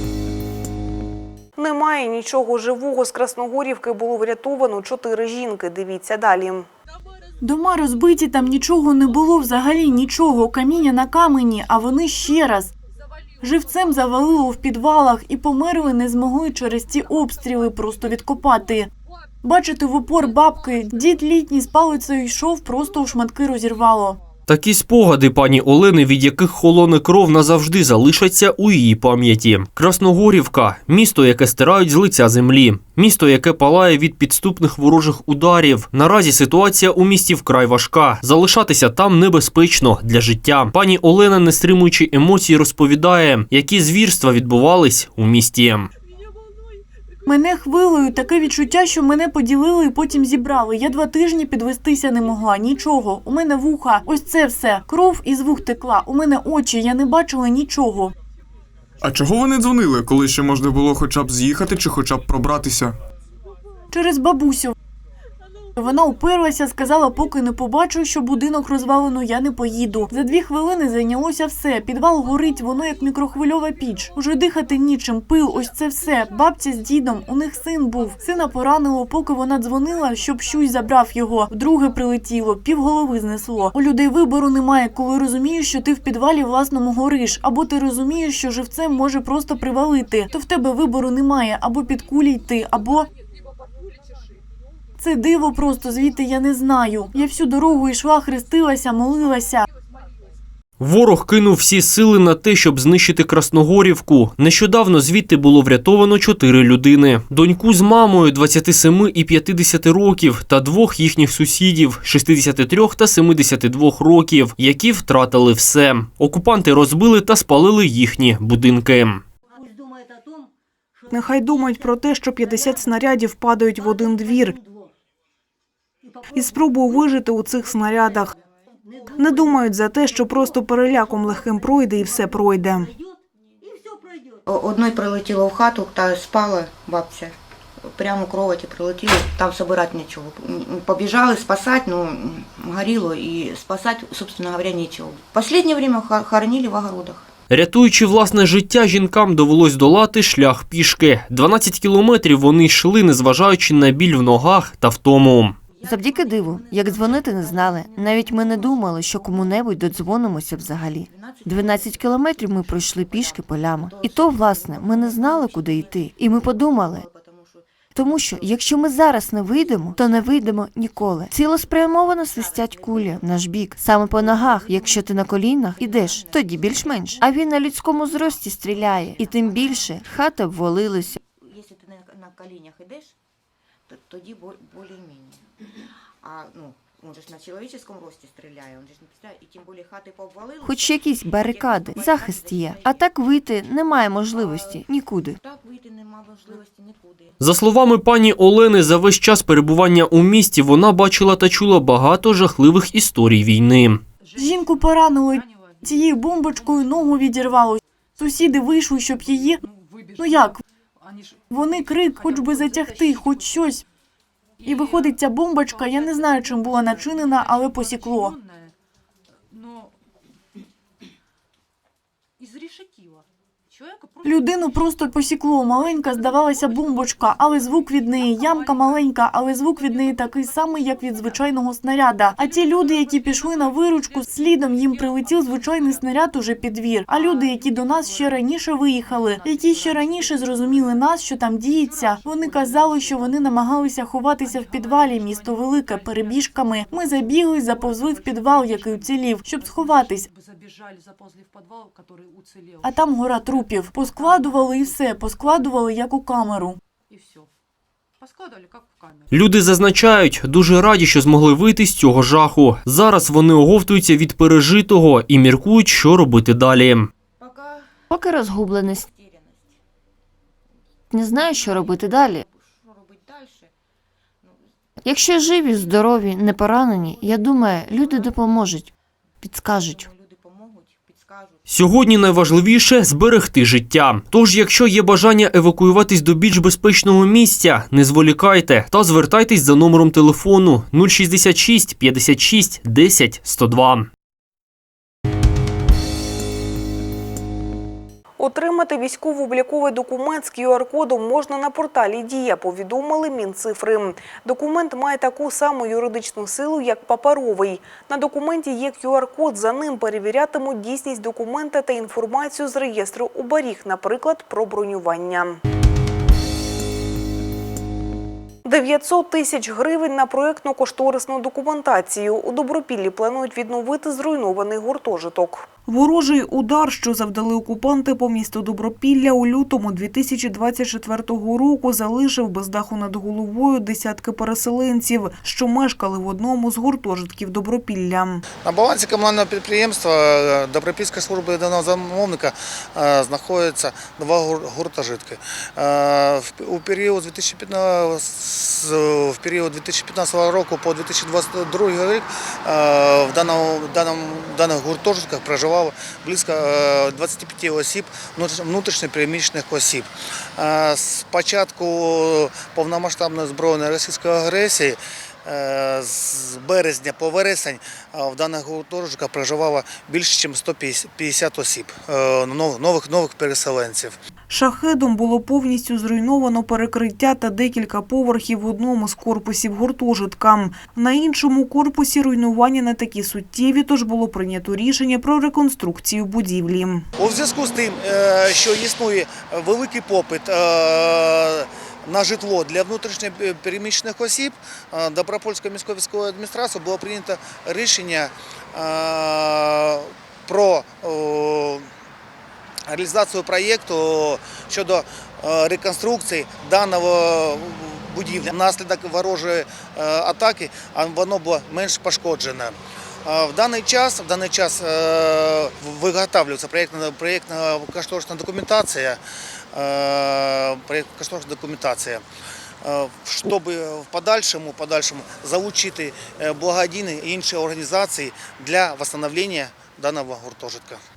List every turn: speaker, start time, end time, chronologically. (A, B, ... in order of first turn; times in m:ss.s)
0:01.6-0:06.7 A
0:07.4-0:12.7 B
0:13.4-0:18.9 B
0:19.4-0:24.2 B
0:24.5-0:45.9 C
0:47.2-0:58.1 B
0:59.0-1:02.9 D
1:03.9-1:04.7 B
1:05.8-1:33.1 B
1:35.0-1:39.6 B
1:40.8-1:59.2 C
2:01.1-2:04.5 A
2:06.3-2:08.3 A
2:09.2-2:12.9 A
2:14.4-2:27.3 E
2:27.5-2:35.6 C
2:35.7-3:00.2 E
2:35.8-2:47.0 F
2:47.9-3:01.2 F
3:01.2-3:03.2 E
3:03.9-3:05.5 E
3:06.2-3:13.1 E
3:10.6-3:15.4 F
3:14.3-3:17.4 E
3:17.4-3:24.0 C
3:24.3-3:29.6 B
3:30.2-3:30.6 B
3:31.5-3:33.8 B
3:34.6-3:38.4 B
3:44.2-4:10.3 B
4:12.8-4:16.8 B
4:19.3-4:27.1 C
4:27.4-4:29.8 E
4:28.1-4:29.0 F
4:31.1-4:33.7 E
4:31.1-4:32.4 F
4:34.4-4:38.8 E
4:35.0-4:38.9 F
4:39.4-4:41.8 E
4:39.4-4:40.1 F
4:41.7-4:54.1 C
4:58.4-5:15.6 A
5:18.6-5:38.4 A
5:38.6-6:14.2 G
6:14.5-6:27.1 A
6:27.2-6:41.9 G
6:42.9-6:59.2 G
6:59.7-7:02.2 G
7:02.8-7:11.0 G